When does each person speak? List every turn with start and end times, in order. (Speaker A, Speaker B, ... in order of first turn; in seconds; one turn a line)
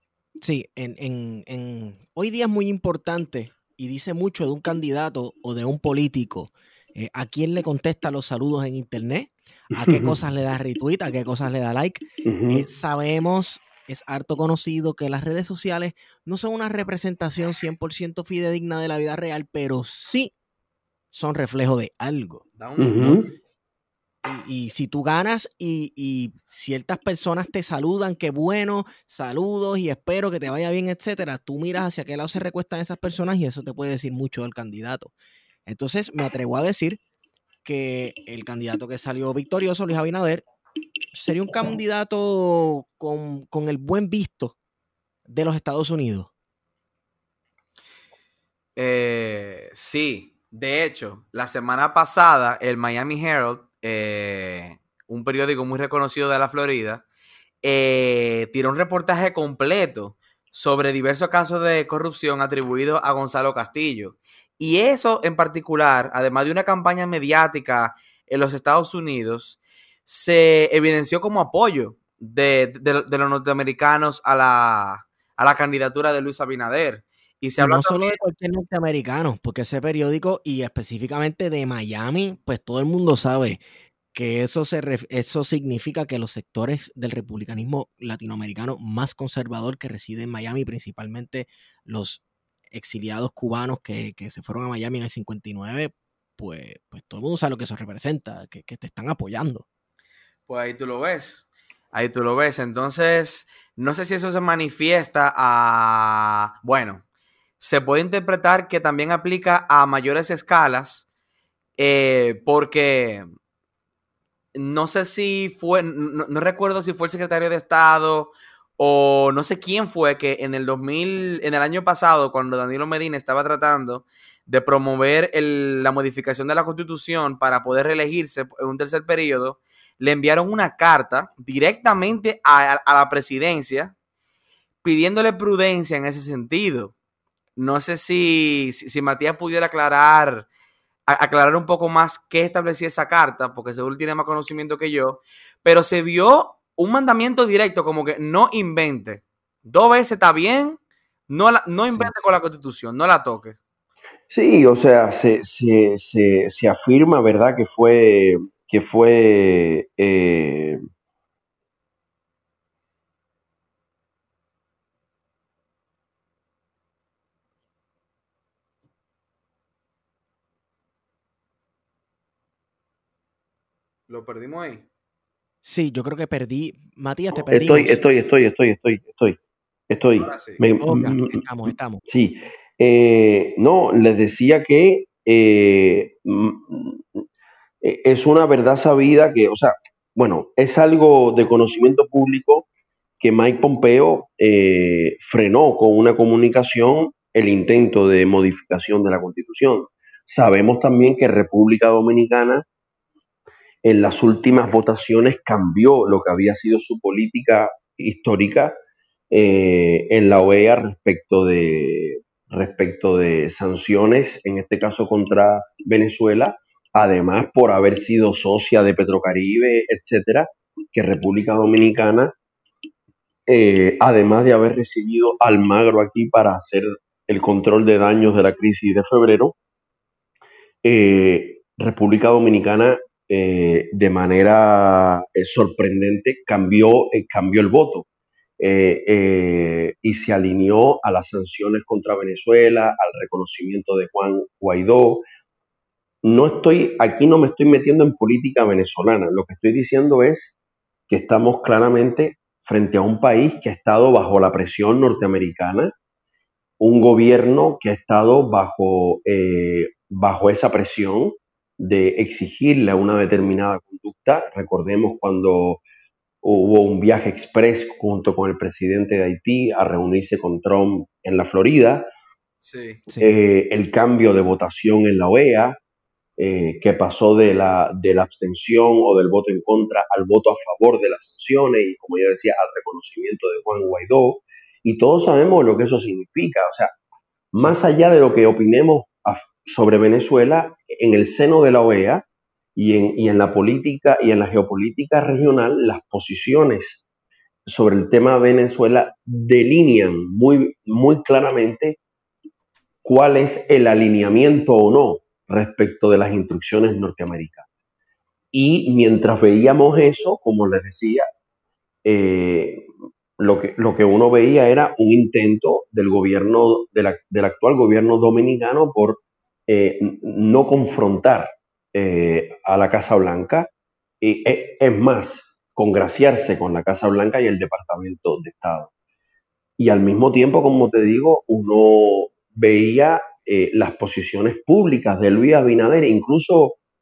Speaker A: 0.4-20.3
Speaker B: 9.8-10.2
Speaker B: 12.3-12.7
Speaker A: 21.1-23.2
Speaker C: 22.6-23.3
Speaker B: 22.8-23.3
Speaker A: 24.2-35.1
Speaker A: 35.7-37.0
Speaker A: 37.6-40.4
Speaker A: 41.1-44.5
Speaker A: 45.3-46.3
Speaker C: 48.8-57.0
Speaker C: 57.6-78.2
Speaker A: 77.6-83.6
Speaker A: 84.1-99.7
Speaker C: 100.5-107.0
Speaker C: 107.6-111.1
Speaker C: 111.8-113.3
Speaker C: 114.5-133.9
Speaker C: 134.8-136.9
Speaker C: 137.6-140.5
Speaker C: 141.1-153.6
Speaker B: 154.3-160.8
Speaker C: 174.1-174.9
Speaker A: 175.6-178.1
Speaker B: 177.5-179.4
Speaker B: 179.9-181.4
Speaker C: 180.2-180.6
Speaker A: 180.8-182.0
Speaker B: 182.1-187.2
Speaker B: 187.8-192.7
Speaker B: 193.2-202.7
Speaker B: 203.8-208.8
Speaker B: 209.3-222.3
Speaker B: 223.5-229.6
Speaker B: 230.8-238.1
Speaker B: 238.6-245.3
Speaker B: 246.2-250.5
Speaker B: 251.1-255.9
Speaker B: 256.8-265.8
Speaker B: 266.4-272.1
Speaker C: 272.6-273.0
Speaker A: 273.1-273.4
Speaker B: 273.2-275.8
Speaker B: 276.4-286.9
Speaker B: 287.5-292.2
Speaker B: 292.8-297.0
Speaker B: 297.7-302.0
Speaker B: 303.0-307.7
Speaker B: 308.5-311.3
Speaker B: 312.1-312.9
Speaker B: 313.4-323.7
Speaker B: 324.2-328.9
Speaker B: 329.8-336.8